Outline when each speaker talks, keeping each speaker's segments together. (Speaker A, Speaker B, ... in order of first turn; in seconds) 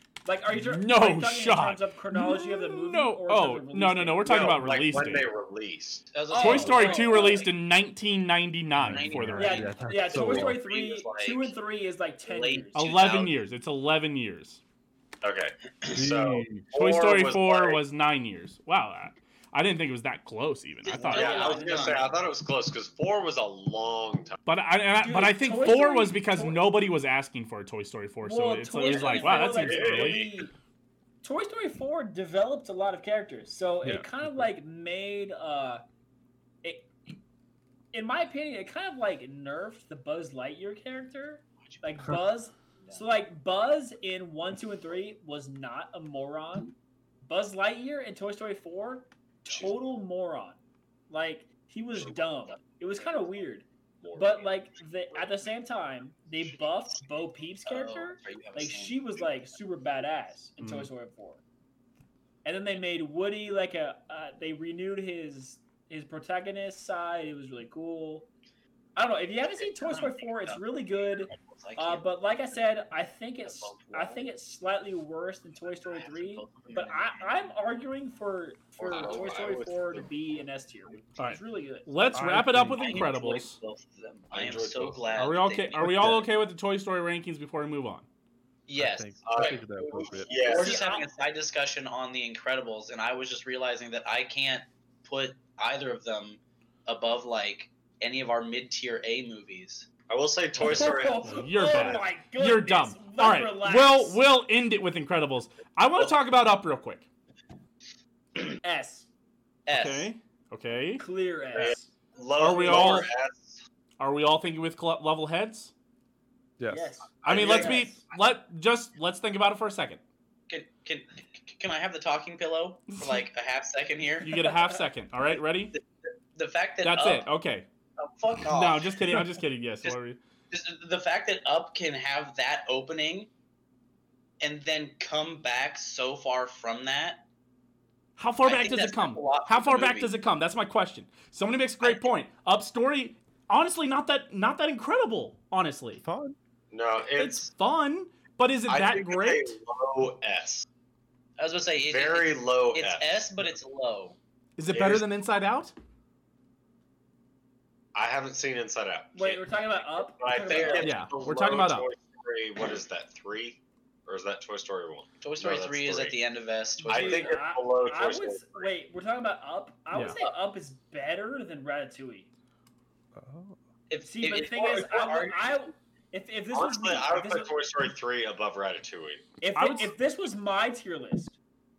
Speaker A: 0.2-4.5, 6.3-7.5, 9.4-12.8, 21.1-22.0, 25.0-26.6, 28.2-30.5, 31.2-35.8, 36.6-37.1, 37.9-50.6, 51.1-61.4, 62.5-68.3, 69.0-81.9, 90.5-91.1, 100.6-104.2, 108.6-109.1, 111.0-111.9, 112.5-113.0, 116.7-118.0, 159.2-161.0, 166.9-172.3, 174.0-177.6, 179.4-181.4
Speaker B: 0.5-5.3, 6.3-9.6, 12.7-14.6, 16.7-21.6, 24.5-30.3, 60.6-60.9, 81.2-83.6, 85.2-88.1, 100.6-107.1, 109.7-111.0, 112.4-113.1, 114.0-115.7, 117.2-120.0, 122.9-123.2, 124.2-125.8, 126.8-127.7, 128.5-130.2, 138.2-146.0, 147.2-149.5, 154.6-155.7, 160.8-161.9, 169.9-170.2, 179.6-179.9
Speaker C: 4.2-6.1, 15.2-17.8, 21.0-24.4, 29.5-30.4, 54.0-54.5, 78.8-80.1, 84.3-85.3, 89.2-89.6, 90.1-90.8, 100.1-102.0, 111.5-113.6, 117.2-117.8, 146.7-147.5, 148.7-150.7, 151.9-153.3, 154.7-155.1, 157.9-166.2, 166.8-168.7, 176.5-179.2
Speaker D: 6.1-7.5, 8.8-11.6, 12.3-13.3, 20.9-22.1, 28.9-29.6, 57.7-59.3, 69.6-72.1, 73.4-74.3, 75.9-77.5, 78.9-79.2, 82.7-86.0, 88.7-99.9, 109.7-110.1, 120.5-124.4, 126.3-127.3, 128.0-129.2, 130.5-133.3, 134.4-137.2, 138.4-140.1, 141.8-142.1, 151.4-154.2, 160.5-160.8, 165.2-167.4, 173.9-175.7
Speaker E: 8.8-10.6, 15.9-16.7, 33.8-34.5, 82.1-83.1, 85.8-86.3, 88.8-90.3, 116.6-117.0, 146.0-146.4, 173.2-173.6